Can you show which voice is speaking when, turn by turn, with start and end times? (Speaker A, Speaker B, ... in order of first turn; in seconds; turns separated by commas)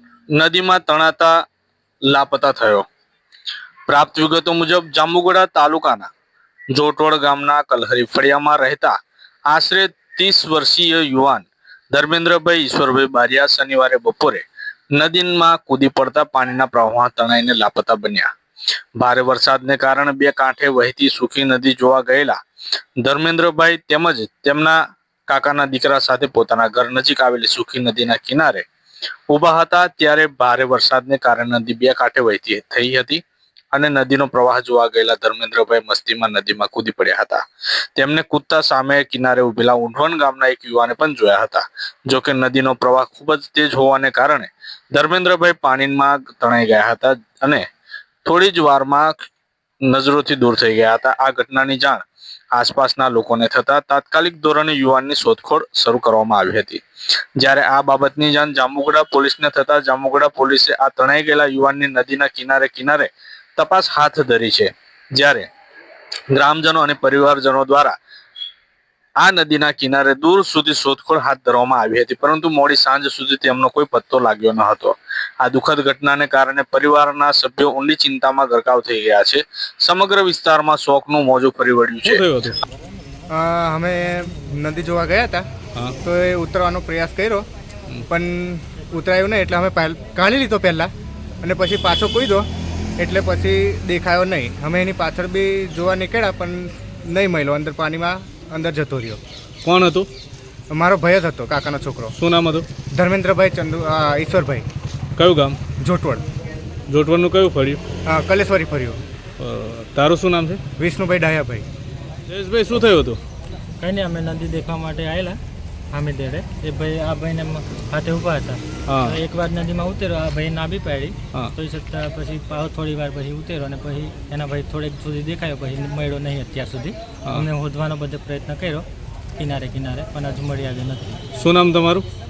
Speaker A: 0.3-1.4, Speaker A: 2.1-2.9, Speaker A: 3.9-6.1, Speaker A: 6.7-8.9, Speaker A: 9.5-18.3, Speaker A: 19.0-22.4, Speaker A: 23.0-28.6, Speaker A: 29.3-33.2, Speaker A: 33.7-37.4, Speaker A: 38.0-47.6, Speaker A: 48.2-49.1, Speaker A: 49.9-56.8, Speaker A: 57.4-65.5, Speaker A: 66.3-68.0, Speaker A: 69.2-82.3, Speaker B: 82.0-82.6, Speaker C: 83.3-85.4, Speaker C: 86.0-87.4, Speaker C: 88.1-90.9, Speaker C: 91.4-92.5, Speaker C: 93.0-99.2, Speaker B: 99.6-100.1, Speaker C: 100.7-102.1, Speaker B: 102.2-102.7, Speaker C: 102.9-104.7, Speaker B: 105.2-105.6, Speaker C: 105.8-106.2, Speaker B: 106.9-107.8, Speaker C: 108.1-109.0, Speaker B: 109.4-110.6, Speaker C: 110.8-111.6, Speaker B: 112.3-113.2, Speaker D: 113.8-115.4, Speaker D: 115.9-128.8, Speaker B: 118.9-119.1, Speaker D: 129.4-131.2, Speaker B: 131.3-132.1